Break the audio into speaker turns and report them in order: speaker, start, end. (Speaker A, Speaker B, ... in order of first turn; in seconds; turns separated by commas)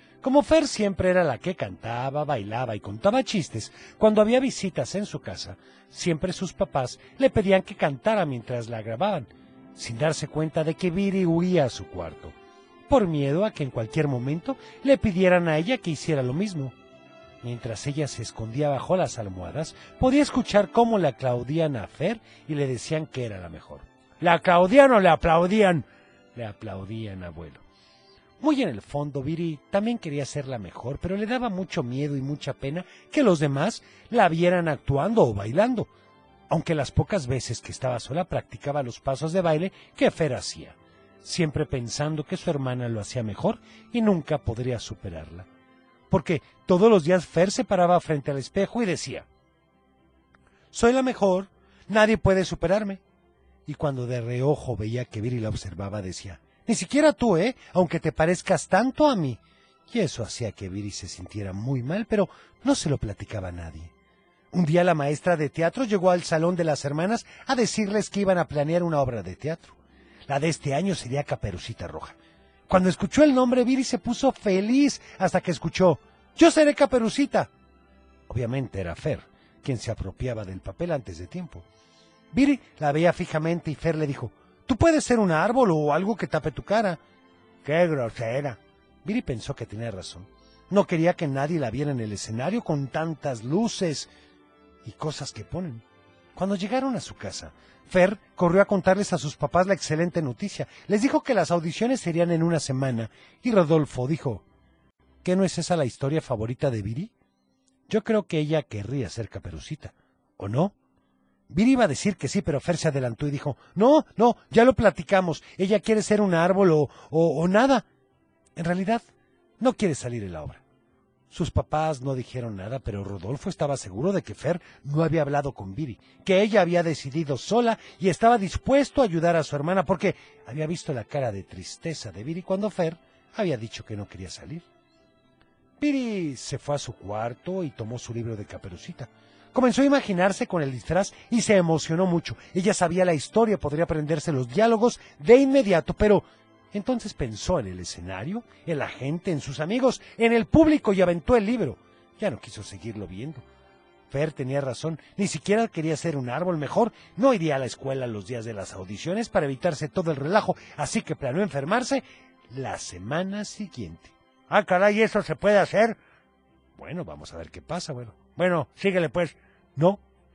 Speaker A: 0.2-12.3, Speaker A: 12.9-16.7, Speaker A: 17.4-27.6, Speaker A: 28.4-35.9, Speaker A: 36.5-45.5, Speaker A: 46.1-49.3, Speaker A: 50.7-53.0, Speaker A: 53.7-63.9, Speaker A: 64.5-69.8, Speaker A: 70.3-72.2, Speaker A: 72.7-77.5, Speaker A: 78.3-81.7, Speaker A: 82.3-87.0, Speaker A: 87.6-94.1, Speaker A: 94.8-95.8, Speaker A: 96.4-104.4, Speaker A: 105.2-107.1, Speaker A: 107.9-110.7, Speaker A: 111.5-117.8, Speaker A: 118.6-119.1, Speaker A: 119.6-120.6, Speaker A: 121.3-134.7, Speaker A: 135.8-153.4, Speaker A: 154.1-166.0, Speaker A: 166.8-170.0